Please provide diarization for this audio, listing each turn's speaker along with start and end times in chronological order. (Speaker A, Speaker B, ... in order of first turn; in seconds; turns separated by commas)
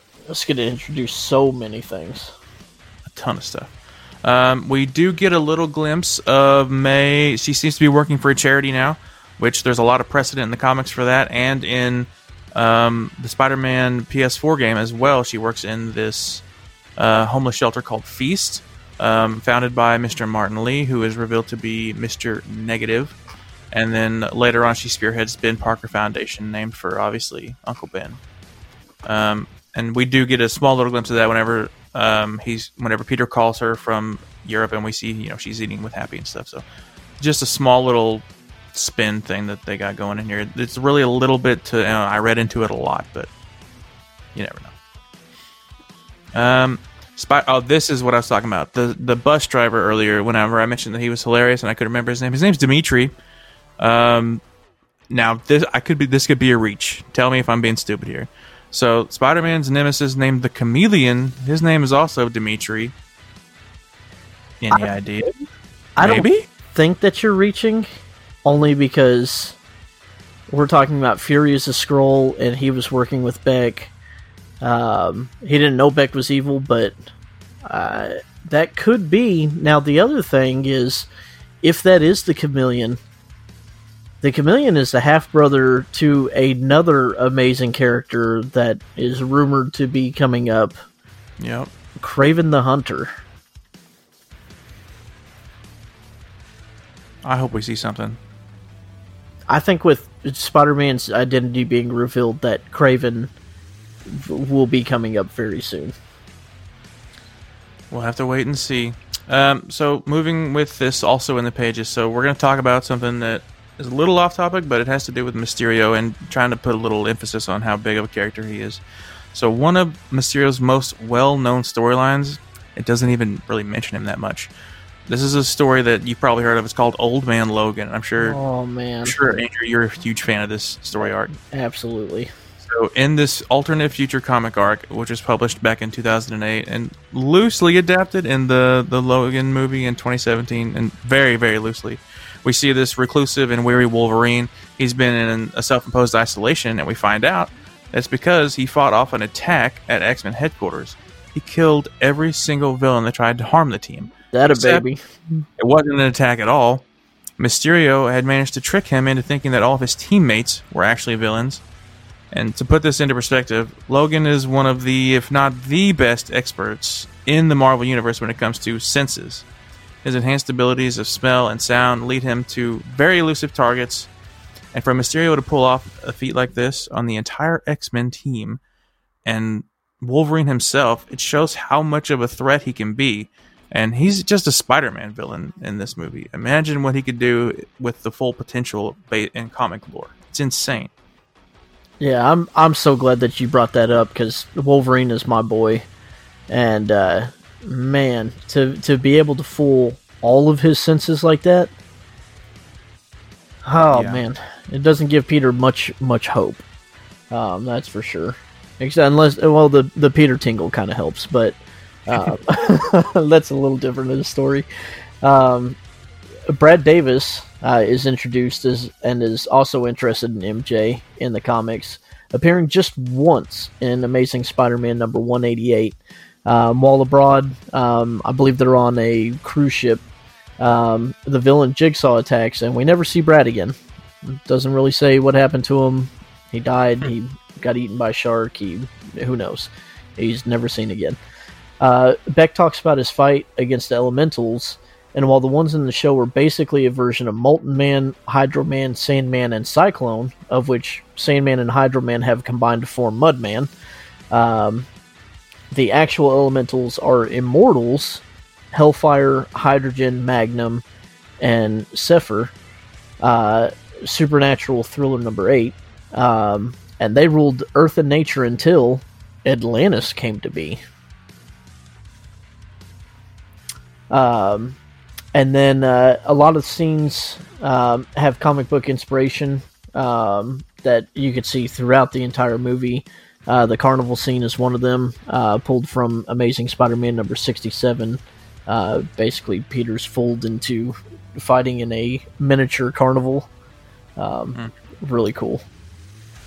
Speaker A: 0.3-2.4, Speaker B: 3.1-3.7, Speaker B: 4.2-16.4, Speaker B: 17.0-23.2, Speaker B: 23.7-28.2, Speaker B: 29.1-36.6, Speaker B: 37.2-43.3, Speaker B: 44.4-44.7, Speaker B: 46.3-53.1, Speaker B: 53.8-54.4, Speaker B: 55.1-63.0, Speaker B: 64.6-65.3, Speaker A: 66.0-69.6, Speaker B: 66.0-66.5, Speaker A: 70.5-73.9, Speaker A: 74.6-77.0, Speaker A: 77.7-81.1, Speaker A: 81.6-83.0, Speaker A: 84.2-90.8, Speaker B: 91.4-91.7, Speaker A: 92.0-93.1, Speaker B: 97.2-98.2, Speaker A: 99.5-103.3, Speaker A: 104.0-105.9, Speaker B: 107.9-118.8, Speaker B: 119.3-124.5, Speaker B: 125.1-128.4, Speaker A: 128.2-129.2, Speaker B: 129.0-131.3, Speaker A: 131.4-132.3, Speaker B: 132.6-154.8, Speaker A: 154.3-155.0, Speaker B: 155.6-156.8, Speaker B: 157.4-161.6, Speaker B: 162.3-169.5, Speaker B: 170.0-174.1, Speaker B: 174.7-178.6, Speaker B: 179.2-190.9, Speaker A: 192.0-195.8, Speaker A: 196.5-201.7, Speaker A: 203.7-206.6, Speaker B: 203.9-204.2, Speaker A: 207.3-214.7, Speaker A: 215.2-215.8, Speaker A: 216.5-230.0, Speaker A: 230.6-241.2, Speaker A: 241.8-253.7, Speaker A: 254.3-254.9, Speaker A: 255.7-260.8, Speaker A: 261.4-262.5, Speaker A: 263.2-270.8, Speaker A: 274.1-274.8, Speaker A: 275.3-293.5, Speaker A: 294.2-295.6